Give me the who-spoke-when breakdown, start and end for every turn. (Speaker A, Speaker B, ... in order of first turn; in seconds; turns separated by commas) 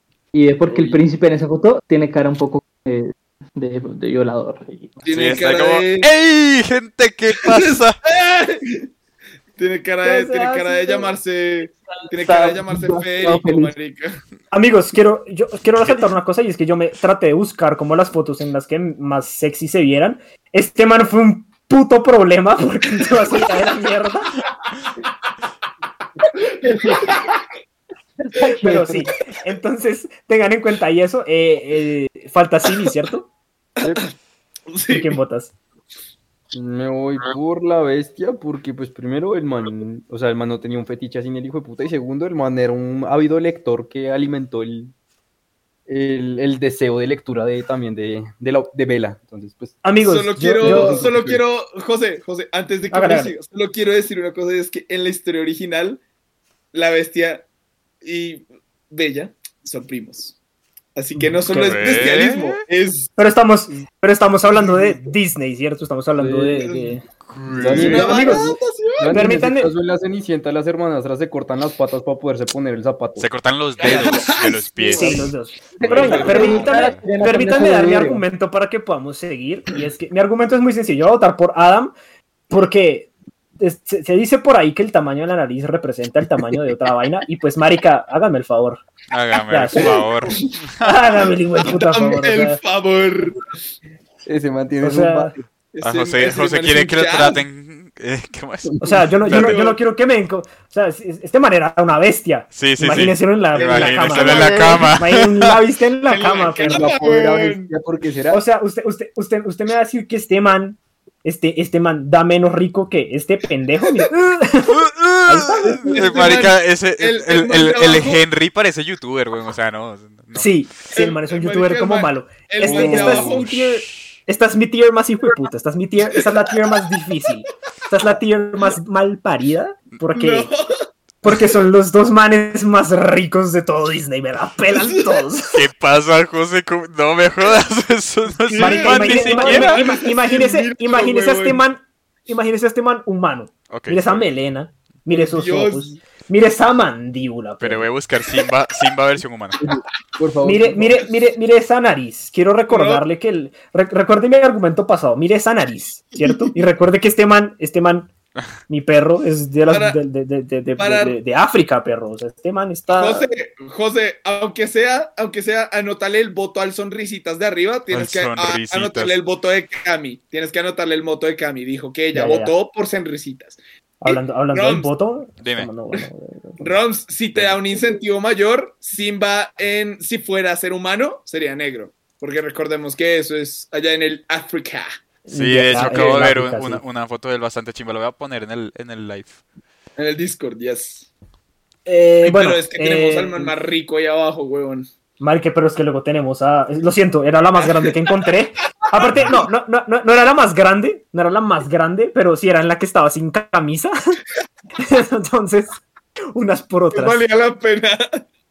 Speaker A: 0.3-5.0, Speaker B: 5.0-6.1, Speaker C: 5.1-8.0, Speaker B: 7.4-8.9, Speaker B: 9.6-14.2, Speaker D: 10.0-11.1, Speaker A: 12.0-13.7, Speaker D: 14.5-24.3, Speaker A: 26.4-27.2, Speaker B: 27.0-27.3, Speaker A: 28.2-29.1, Speaker D: 28.6-33.3, Speaker B: 33.8-34.1, Speaker B: 34.7-35.2, Speaker D: 34.9-35.5, Speaker E: 36.5-44.9, Speaker E: 45.9-49.9, Speaker D: 49.8-51.1, Speaker B: 50.0-56.0, Speaker E: 50.6-51.4, Speaker D: 52.9-53.3, Speaker B: 56.7-57.5, Speaker B: 58.0-60.4, Speaker B: 60.9-63.1, Speaker D: 61.2-62.0, Speaker C: 61.5-62.6, Speaker D: 63.2-67.0, Speaker E: 66.2-66.8, Speaker C: 67.3-68.1, Speaker E: 67.5-73.3, Speaker D: 67.7-68.5, Speaker B: 67.7-69.2, Speaker D: 69.1-69.7, Speaker C: 73.2-77.0, Speaker B: 73.8-75.0, Speaker D: 74.9-81.9, Speaker A: 75.9-78.2, Speaker E: 76.0-76.5, Speaker B: 76.1-76.6, Speaker D: 82.5-88.8, Speaker C: 89.1-91.0, Speaker D: 89.5-90.1, Speaker D: 90.8-92.6, Speaker B: 91.6-93.4, Speaker E: 94.2-95.5, Speaker D: 94.8-95.3, Speaker B: 95.7-97.4, Speaker C: 95.8-99.6, Speaker E: 98.6-99.0, Speaker D: 98.8-107.0, Speaker B: 99.2-99.8, Speaker C: 102.5-105.5, Speaker B: 103.5-105.0, Speaker B: 106.0-107.7, Speaker E: 106.6-108.4, Speaker D: 108.3-116.1, Speaker C: 114.7-120.5, Speaker B: 115.9-118.2, Speaker D: 120.3-130.5, Speaker B: 120.9-123.5, Speaker E: 122.6-123.3, Speaker C: 122.7-123.4, Speaker B: 130.1-130.9, Speaker D: 131.2-135.7, Speaker B: 134.8-135.2, Speaker C: 135.5-139.8, Speaker B: 138.4-141.6, Speaker D: 138.5-147.9, Speaker C: 143.7-144.3, Speaker B: 145.1-146.0, Speaker C: 147.6-149.6, Speaker E: 149.6-151.0, Speaker D: 150.4-158.1, Speaker B: 152.7-153.0, Speaker B: 156.2-156.5, Speaker D: 158.7-163.3, Speaker B: 159.7-160.0, Speaker B: 160.8-161.2, Speaker B: 162.9-174.9, Speaker C: 167.9-169.2, Speaker D: 172.1-172.5, Speaker D: 174.0-176.8, Speaker C: 175.4-175.7, Speaker B: 176.6-184.9, Speaker D: 185.2-186.8, Speaker C: 185.3-189.4, Speaker B: 190.0-191.1, Speaker D: 191.8-193.5, Speaker B: 192.2-194.9, Speaker D: 195.2-204.2, Speaker D: 204.8-205.8, Speaker D: 206.3-207.2, Speaker B: 206.9-208.2